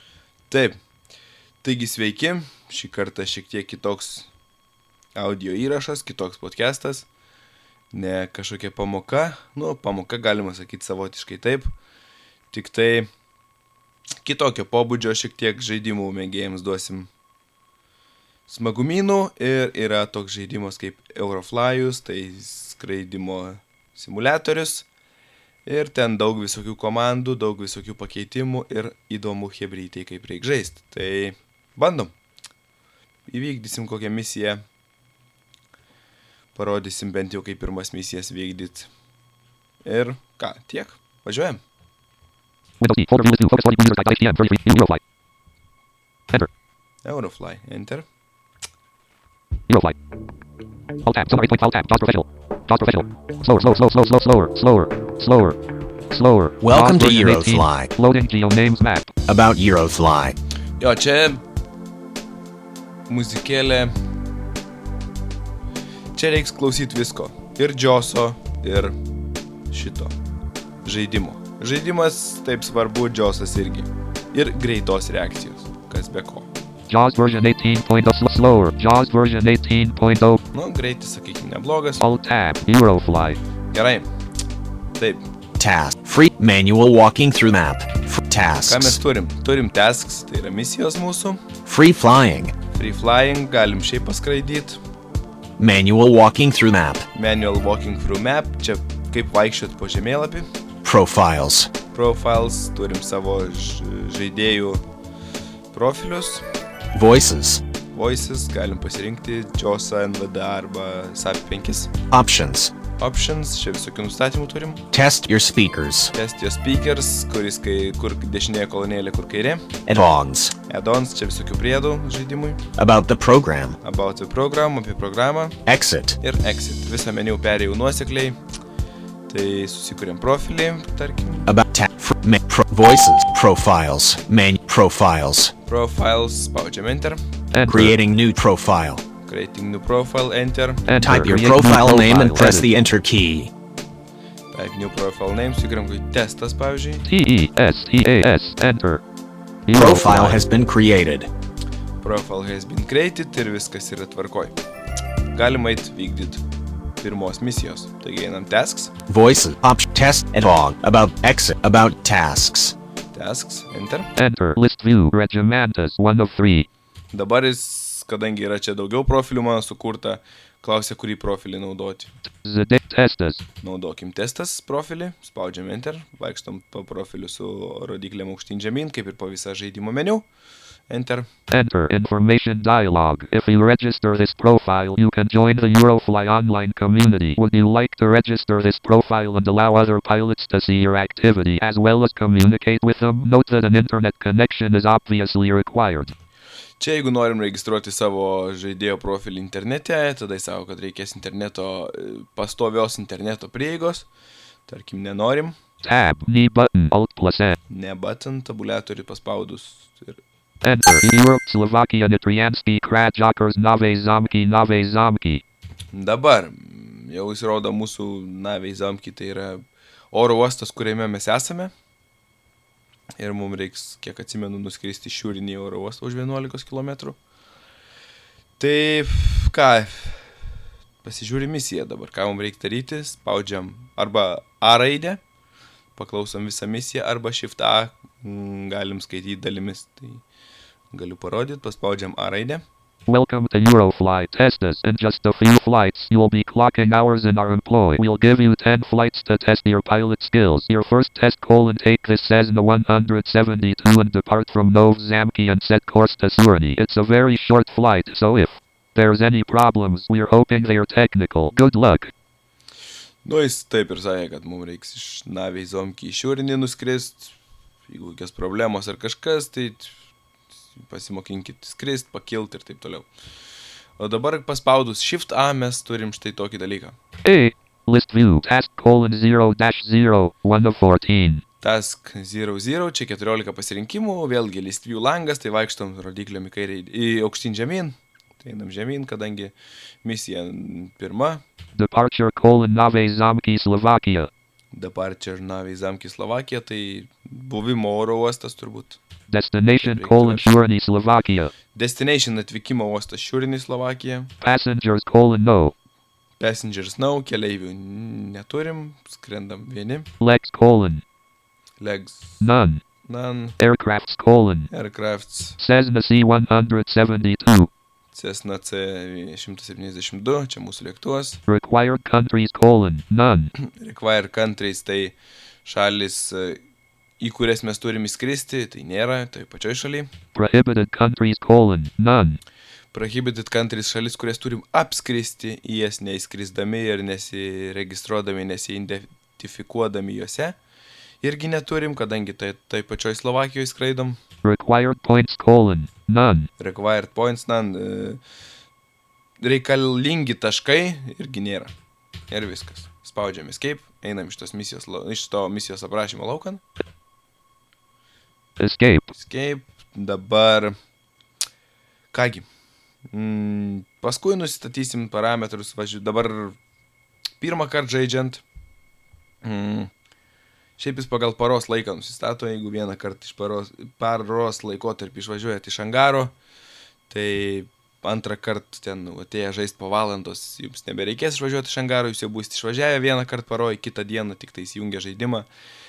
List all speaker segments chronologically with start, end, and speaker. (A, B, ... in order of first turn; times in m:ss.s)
0:00.5-0:00.8 A
0:01.6-0:04.3 A
0:05.2-0:07.1 A
0:07.9-0:11.7 A
0:12.5-0:13.1 A
0:14.2-0:17.1 A
0:18.5-0:24.9 A
0:25.7-0:32.1 A
0:33.3-0:34.6 A
0:36.6-0:38.9 A
0:39.8-0:41.6 A
0:42.8-0:45.0 B
0:47.0-0:48.0 A
0:49.7-0:50.0 B
0:51.0-0:55.6 B
0:56.1-0:59.1 B
0:56.6-0:57.9 C
0:59.3-1:00.4 C
1:00.8-1:01.4 A
1:03.1-1:03.9 A
1:06.2-1:09.0 A
1:09.7-1:10.1 A
1:10.8-1:16.5 A
1:16.9-1:20.4 B
1:20.5-1:22.0 A
1:22.0-1:23.4 B
1:23.7-1:24.0 A
1:25.0-1:25.2 A
1:25.6-1:29.0 C
1:28.7-1:31.4 A
1:31.7-1:32.6 C
1:32.7-1:34.8 A
1:35.6-1:37.1 C
1:37.1-1:40.5 A
1:40.8-1:41.7 C
1:41.9-1:44.8 A
1:45.7-1:46.4 A
1:46.9-1:47.6 C
1:47.9-1:51.9 A
1:52.1-1:52.7 C
1:53.0-1:54.8 A
1:54.9-1:56.1 C
1:56.2-1:59.6 A
1:59.9-2:00.5 C
2:00.7-2:02.6 A
2:02.8-2:03.8 C
2:03.8-2:05.6 A
2:05.7-2:06.2 C
2:06.2-2:08.4 A
2:09.3-2:11.5 A
2:11.5-2:15.5 C
2:15.7-2:17.2 A
2:17.5-2:17.9 B
2:17.7-2:19.0 C
2:19.3-2:20.9 A
2:20.9-2:22.7 B
2:21.0-2:23.5 C
2:24.5-2:27.0 A
2:27.0-2:29.0 B
2:29.7-2:30.4 B
2:29.7-2:31.3 C
2:32.0-2:34.5 A
2:35.4-2:36.4 A
2:37.0-2:38.9 A
2:39.1-2:42.8 C
2:43.1-2:44.1 A
2:44.2-2:46.7 B
2:47.1-2:52.1 A
2:52.3-2:53.4 B
2:53.6-3:00.2 A
3:00.9-3:01.3 A
3:01.5-3:16.2 B
3:16.8-3:24.1 A
3:24.7-3:25.6 A
3:25.8-3:27.6 B
3:27.7-3:30.2 A
3:30.6-3:35.4 B
3:35.9-3:39.6 A
3:40.1-3:41.7 A
3:43.2-3:47.2 A
3:48.6-3:50.2 A
3:51.0-3:55.2 A
3:56.0-4:00.2 A
4:00.9-4:02.6 A
4:03.1-4:22.1 B
4:23.2-4:27.3 A
4:27.9-4:29.9 A
4:30.8-4:33.1 A
4:34.0-4:37.0 A
4:37.2-4:41.4 B
4:41.6-4:51.4 A
4:51.8-4:54.3 B
4:54.7-4:59.0 A
4:59.3-5:01.5 B
4:59.8-5:00.5 A
5:01.7-5:04.3 A
5:04.4-5:05.7 B
5:06.4-5:10.1 A
5:10.2-5:11.0 B
5:11.8-5:12.4 A
5:12.4-5:12.8 B
5:13.0-5:13.6 A
5:13.6-5:14.7 B
5:14.7-5:15.6 A
5:15.6-5:17.7 B
5:18.1-5:21.4 A
5:21.5-5:23.5 B
5:23.6-5:25.1 A
5:25.6-5:26.6 A
5:27.2-5:30.1 A
5:30.3-5:32.4 B
5:32.9-5:40.6 A
5:41.2-5:44.2 A
5:44.4-5:46.5 B
5:46.6-5:48.2 A
5:49.4-5:51.7 A
5:52.3-5:56.6 A
5:58.6-5:59.1 B
5:59.2-6:00.7 A
6:02.1-6:02.5 A
6:03.1-6:06.6 A
6:07.4-6:08.4 A
6:09.4-6:09.9 A
6:10.8-6:16.3 A
6:17.1-6:25.5 A